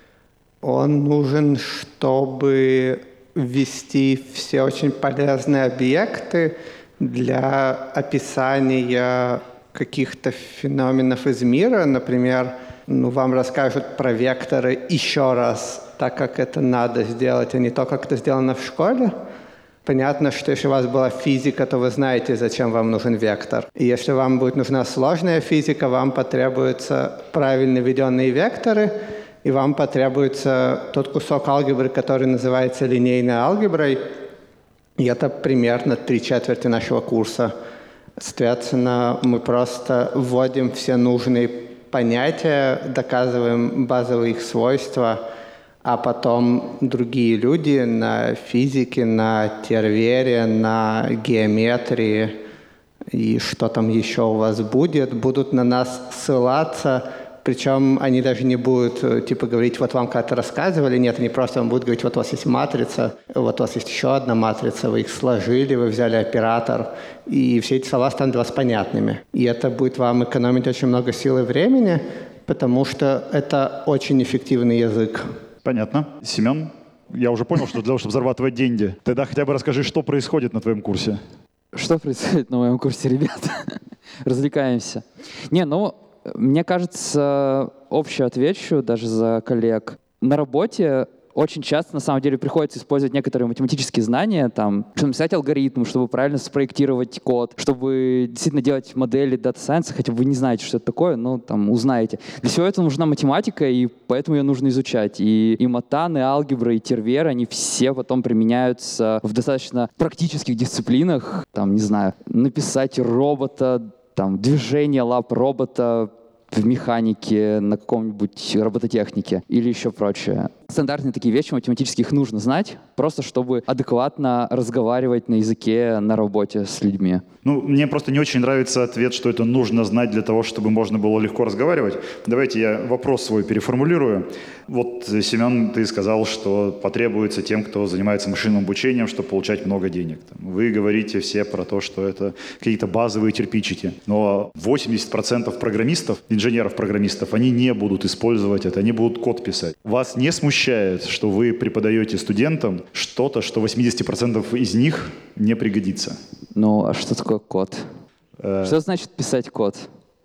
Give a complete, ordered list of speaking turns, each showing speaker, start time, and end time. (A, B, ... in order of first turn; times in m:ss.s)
0:00.6-0:19.1 A
0:19.8-0:34.0 A
0:35.0-0:37.5 A
0:38.2-0:45.2 A
0:45.8-0:52.4 A
0:53.1-1:15.3 A
1:15.6-1:21.2 B
1:21.7-2:07.2 C
2:07.4-2:36.2 B
2:36.5-2:37.8 C
2:38.4-2:38.7 B
2:38.6-2:39.9 C